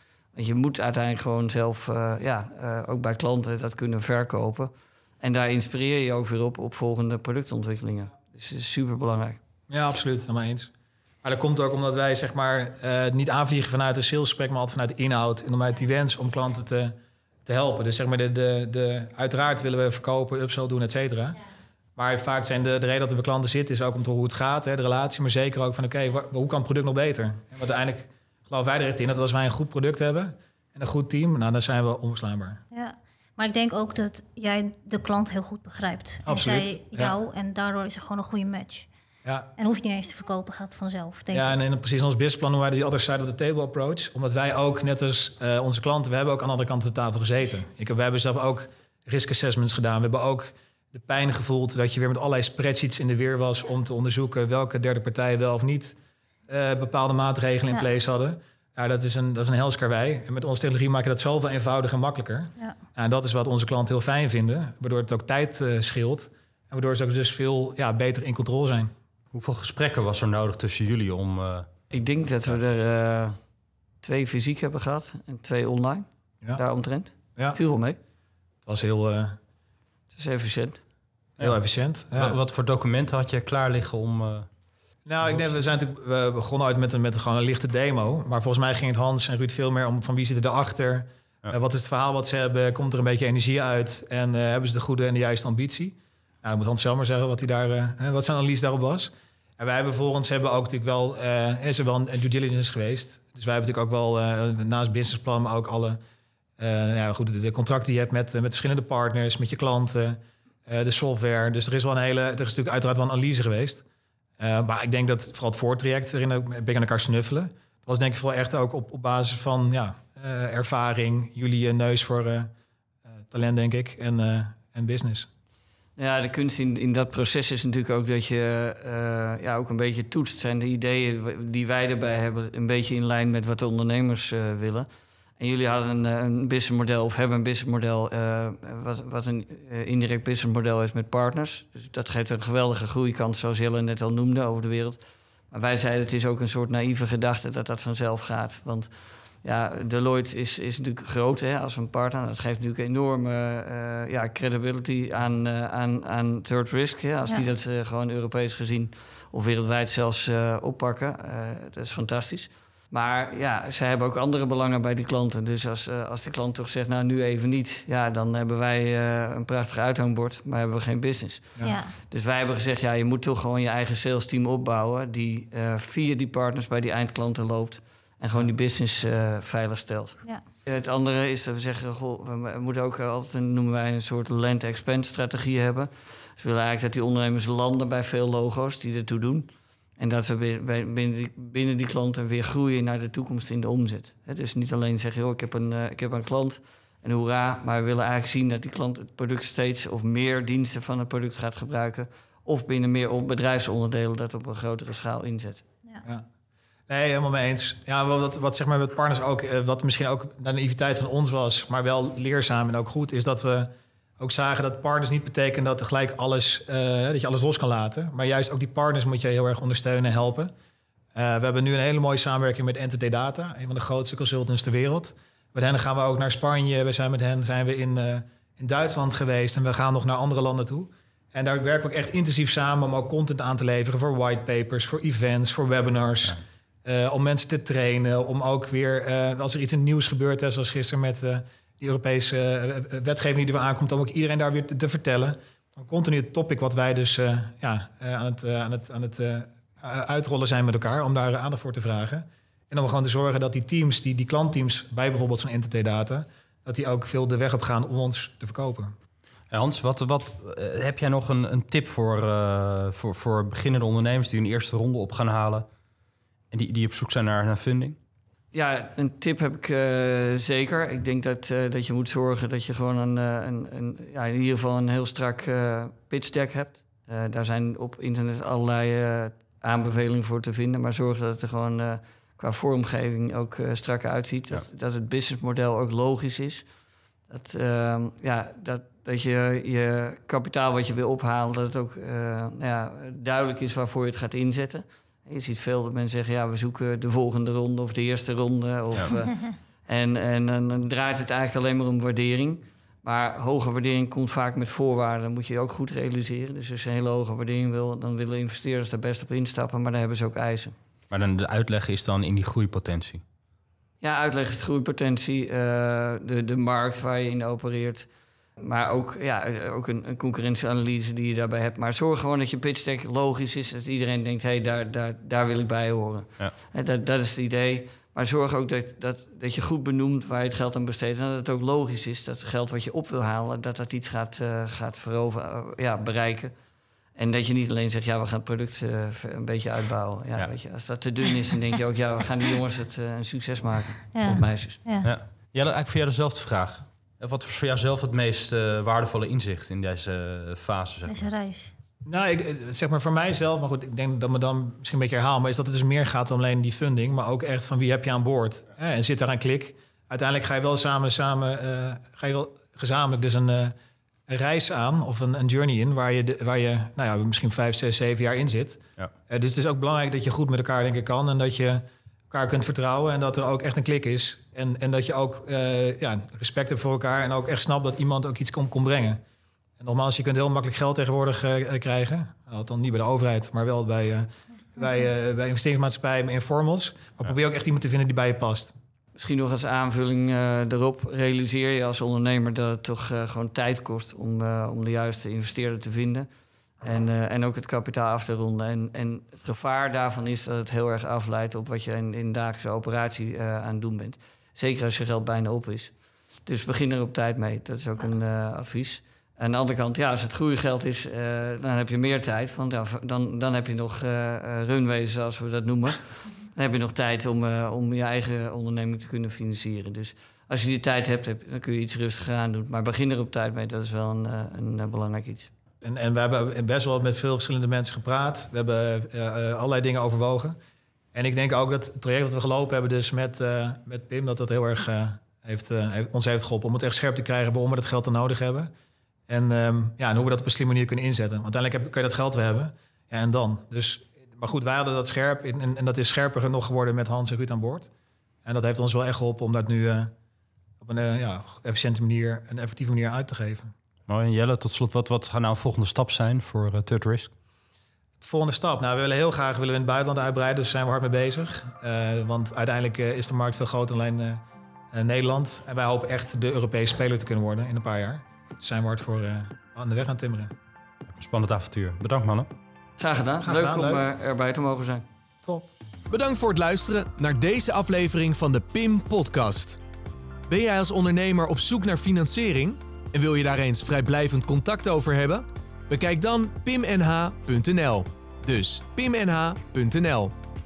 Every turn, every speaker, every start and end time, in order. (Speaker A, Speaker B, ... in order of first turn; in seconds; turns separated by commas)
Speaker A: 0.3-9.4, Speaker B: 9.7-10.7, Speaker B: 11.2-21.4, Speaker B: 22.0-32.6, Speaker C: 32.7-38.9, Speaker B: 36.3-37.2, Speaker C: 39.6-41.5, Speaker B: 41.3-56.0, Speaker B: 56.5-68.9, Speaker D: 69.3-71.7, Speaker A: 71.9-73.4, Speaker A: 74.0-78.0, Speaker B: 78.7-79.4, Speaker A: 80.1-80.8, Speaker B: 81.4-82.4, Speaker D: 82.2-84.5, Speaker B: 85.1-106.0, Speaker D: 85.2-85.5, Speaker B: 106.6-113.8, Speaker B: 114.4-122.5, Speaker B: 123.3-125.3, Speaker A: 126.0-134.9, Speaker A: 135.4-145.0, Speaker A: 145.5-205.6, Speaker C: 171.6-171.9, Speaker B: 206.9-220.5, Speaker B: 221.1-258.9, Speaker D: 259.5-265.7, Speaker D: 266.5-268.0, Speaker A: 268.5-286.7, Speaker A: 287.3-310.8, Speaker D: 311.1-313.2, Speaker A: 314.0-318.1, Speaker A: 318.6-336.5, Speaker A: 337.1-344.8, Speaker C: 344.1-345.1, Speaker D: 345.0-351.2, Speaker C: 351.1-351.7, Speaker B: 352.1-363.7, Speaker B: 364.3-379.2, Speaker B: 379.8-388.8, Speaker A: 389.2-396.3, Speaker A: 396.8-405.9, Speaker A: 406.5-425.5, Speaker B: 425.8-430.6, Speaker B: 431.1-438.7, Speaker B: 439.3-447.9, Speaker B: 448.4-450.1, Speaker B: 450.8-453.7, Speaker D: 454.1-457.3, Speaker B: 458.2-470.5, Speaker D: 471.1-472.5, Speaker A: 473.0-475.1, Speaker B: 473.4-474.1, Speaker B: 475.4-475.7, Speaker E: 476.1-479.8, Speaker E: 480.5-490.4